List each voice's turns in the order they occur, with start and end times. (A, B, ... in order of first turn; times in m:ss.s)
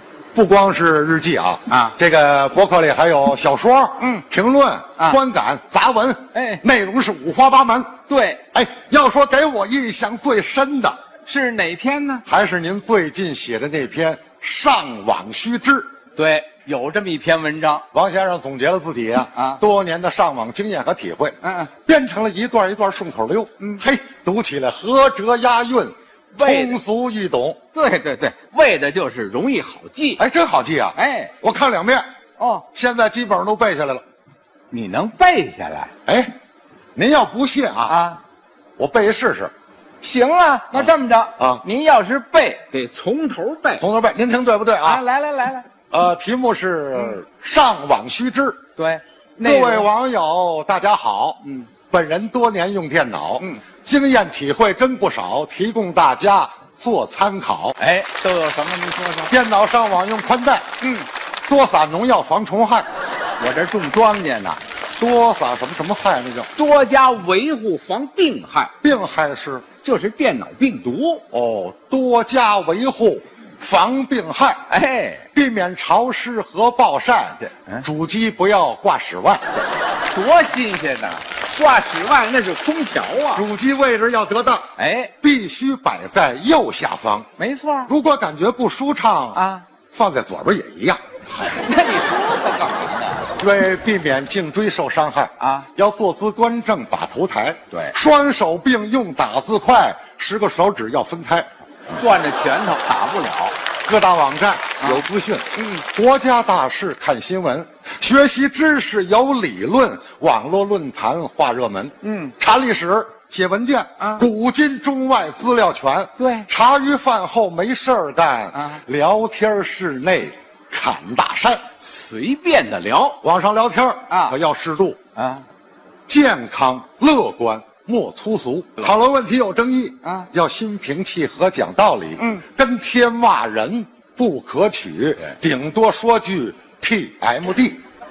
0:00.3-0:07.9 A
0:01.7-0:01.9 B
0:04.0-0:04.2 B
0:06.3-0:06.6 B
0:08.1-0:08.4 B
0:08.5-0:11.0 A
0:11.2-0:12.2 B
0:12.2-0:15.9 A
0:16.2-0:17.8 B
0:17.9-0:27.6 A
0:19.3-0:19.6 B
0:21.4-0:21.7 B
0:26.4-0:26.8 B
0:27.7-0:30.2 B
0:30.2-0:32.0 A
0:31.0-0:31.3 B
0:32.4-0:32.6 B
0:32.7-0:34.0 A
0:34.7-0:35.9 B
0:36.1-0:36.3 A
0:37.0-0:38.0 A
0:37.9-0:38.2 B
0:38.8-0:39.5 A
0:40.0-0:43.8 B
0:40.7-0:41.6 A
0:43.8-0:45.0 A
0:44.8-0:45.7 B
0:45.9-0:48.6 A
0:48.8-0:49.9 B
0:49.4-0:57.8 A
0:51.4-0:51.7 B
0:57.8-0:59.3 B
0:59.3-1:00.6 A
1:00.8-1:01.1 B
1:01.5-1:02.9 A
1:03.4-1:04.6 B
1:05.0-1:06.5 A
1:06.5-1:08.7 B
1:08.8-1:09.6 A
1:09.8-1:11.2 B
1:11.3-1:14.6 A
1:14.7-1:15.2 B
1:15.3-1:19.4 A
1:17.4-1:17.8 B
1:20.1-1:23.4 B
1:23.3-1:24.7 A
1:24.8-1:25.1 B
1:25.2-1:27.3 A
1:27.4-1:27.9 B
1:27.9-1:31.0 A
1:29.3-1:29.6 B
1:31.4-1:33.2 B
1:33.4-1:41.5 A
1:35.4-1:35.7 B
1:41.9-1:43.6 B
1:43.9-2:01.6 A
1:45.5-1:45.8 B
1:52.0-1:52.3 B
1:54.0-1:54.2 B
1:56.2-1:56.5 B
1:58.5-1:58.8 B
2:01.8-2:03.2 B
2:03.2-2:05.0 A
2:04.1-2:04.4 B
2:05.2-2:05.4 B
2:06.1-2:17.8 A
2:10.0-2:10.3 B
2:12.2-2:12.4 B